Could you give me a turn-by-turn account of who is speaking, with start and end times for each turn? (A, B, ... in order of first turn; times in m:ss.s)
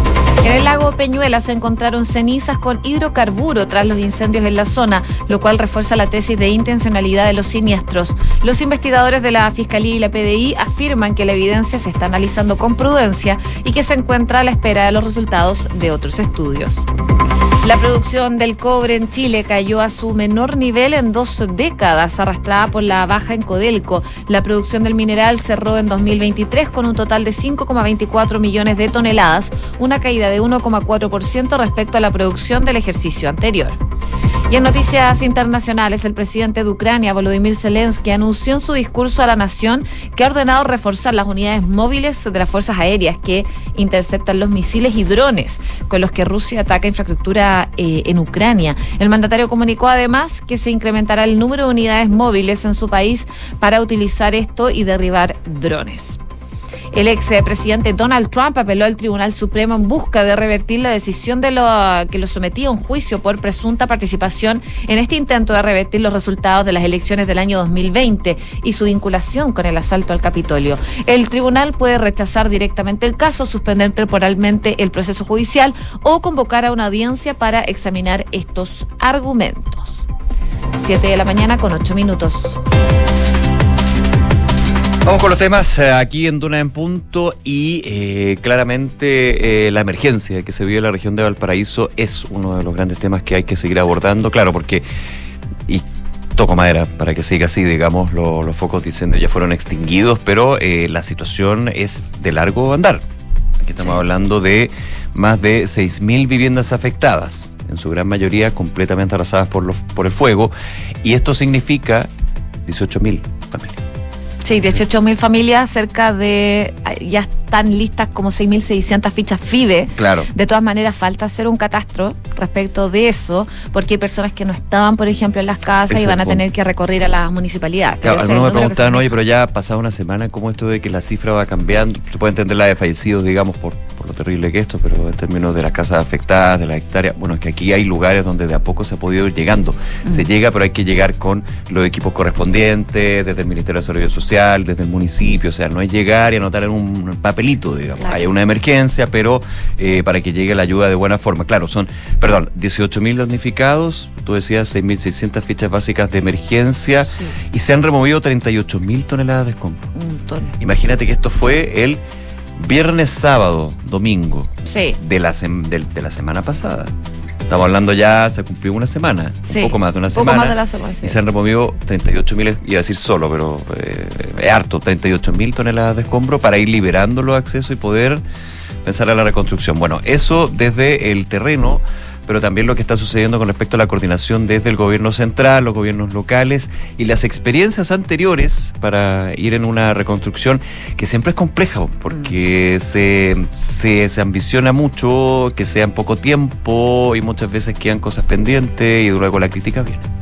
0:00.4-0:16.9 A
0:17.6-0:33.8 A
0:34.5-0:56.2 A
0:56.9-1:20.1 A
1:20.8-1:22.6 A
1:25.0-1:34.8 B
1:35.7-1:43.0 B
1:43.6-1:52.1 B
1:52.7-1:53.8 B
1:54.4-2:09.1 A
2:00.0-2:00.3 B
2:05.9-2:06.4 B
2:08.0-2:39.9 B
2:28.0-2:28.3 A
2:37.1-2:37.4 A
2:40.0-2:40.6 A
2:40.6-2:42.0 B
2:42.6-2:46.9 B
2:44.6-2:45.0 A
2:47.5-2:58.2 B
2:49.5-2:51.2 A
2:58.8-3:20.1 B